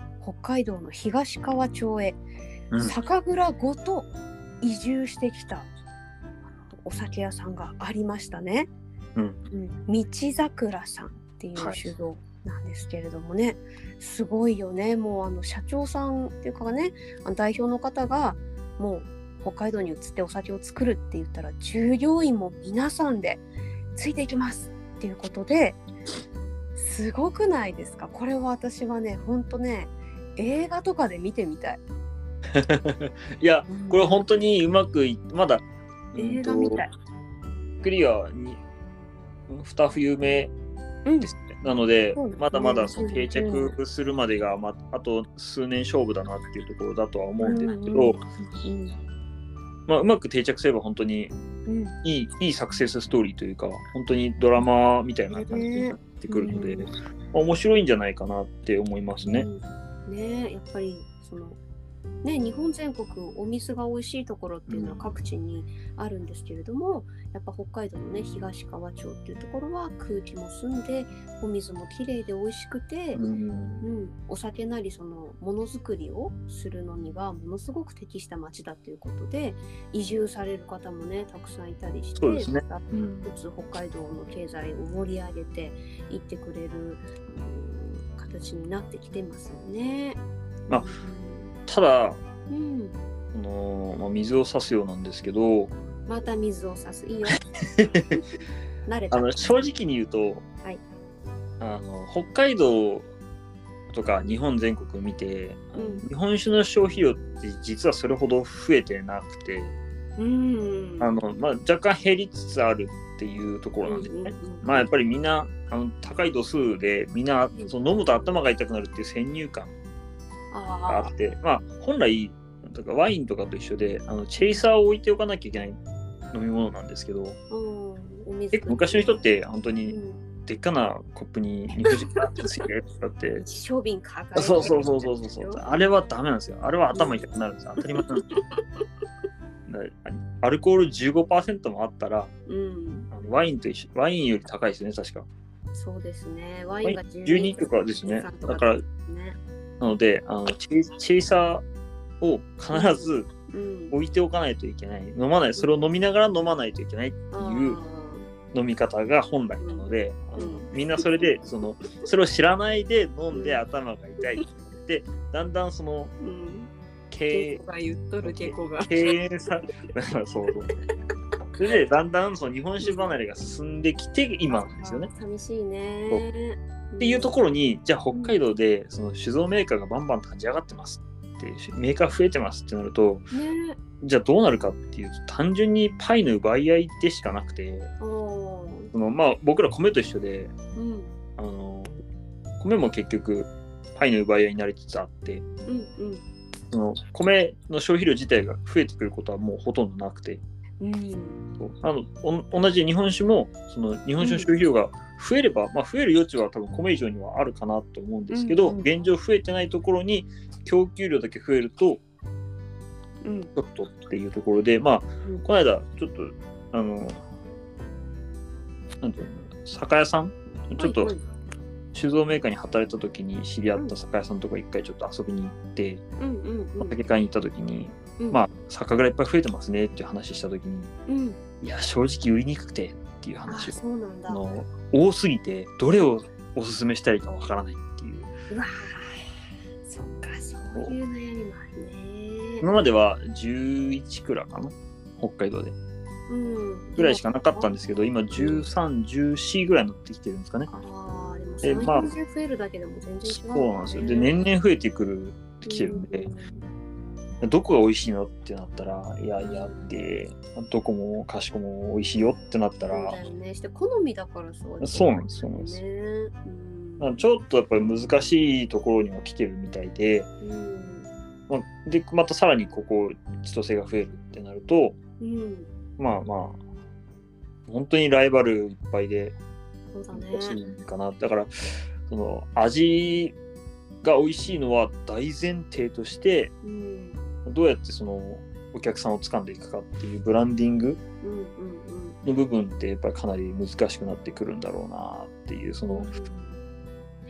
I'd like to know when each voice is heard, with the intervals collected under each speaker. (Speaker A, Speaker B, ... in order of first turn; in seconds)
Speaker A: 0.2-2.2, 2.8-4.1, 4.6-5.7, 6.7-8.7, 9.5-25.8, 26.7-31.8, 33.7-34.2, 36.1-36.9, 41.0-41.3, 42.1-43.8, 47.4-49.0, 51.6-51.9, 55.3-56.9, 59.2-61.6, 62.2-73.2, 73.8-91.5, 92.5-93.0, 96.0-97.4, 98.8-99.4, 105.7-106.0, 110.2-111.2, 113.8-114.9, 120.5-121.1, 124.4-124.6, 127.5-129.2, 129.9-130.2, 131.8-132.4, 133.3-135.6, 136.9-137.3, 137.9-138.4, 142.5-143.1, 145.7-149.4, 152.7-154.0, 155.6-155.8, 157.3-158.3, 159.6-161.3, 163.3-163.6, 166.2-166.7, 167.3-169.0, 172.8-173.1, 174.5-177.4, 178.1-178.4, 183.3-183.8, 188.0-188.9, 190.7-191.1, 195.7-196.2, 200.8-201.4, 204.2-204.5, 208.3-208.8, 213.2-213.5, 220.8-221.2, 226.2-227.0, 228.2-228.4, 231.1-231.4, 233.5-234.4, 238.5-239.3, 239.8-242.7, 246.3-247.7, 248.3-248.7, 250.7-254.4, 255.7-256.6, 259.4-259.9, 262.9-267.2, 270.4-271.1, 275.2-275.7, 279.9-280.6, 286.6-287.2, 291.2-292.2, 295.8-296.6
Speaker B: 2.7-3.0, 11.6-11.8, 32.5-36.8, 37.8-38.6, 39.5-40.5, 41.2-48.2, 49.9-51.3, 52.0-59.5, 64.7-65.1, 73.1-73.8, 82.2-83.3, 91.7-92.2, 93.3-95.8, 97.8-98.2, 99.1-100.4, 101.6-103.1, 103.9-109.8, 111.0-119.7, 120.9-125.8, 126.3-127.4, 128.5-133.4, 134.3-138.2, 139.7-142.3, 143.1-145.3, 146.8-148.8, 149.8-151.6, 152.2-153.3, 153.9-157.8, 158.5-166.1, 167.1-167.6, 168.2-170.7, 171.6-175.1, 177.0-183.3, 184.0-187.9, 188.9-190.5, 191.4-192.0, 192.6-195.4, 196.7-200.4, 201.6-212.0, 213.6-217.2, 219.0-221.1, 221.9-226.0, 226.8-230.9, 231.6-238.3, 242.6-245.8, 247.0-250.7, 251.6-252.1, 253.2-256.3, 257.4-263.2, 264.8-265.8, 267.0-270.3, 271.5-275.0, 276.0-276.6, 277.7-279.4, 280.1-283.4, 284.0-286.5, 287.4-291.0, 292.2-296.1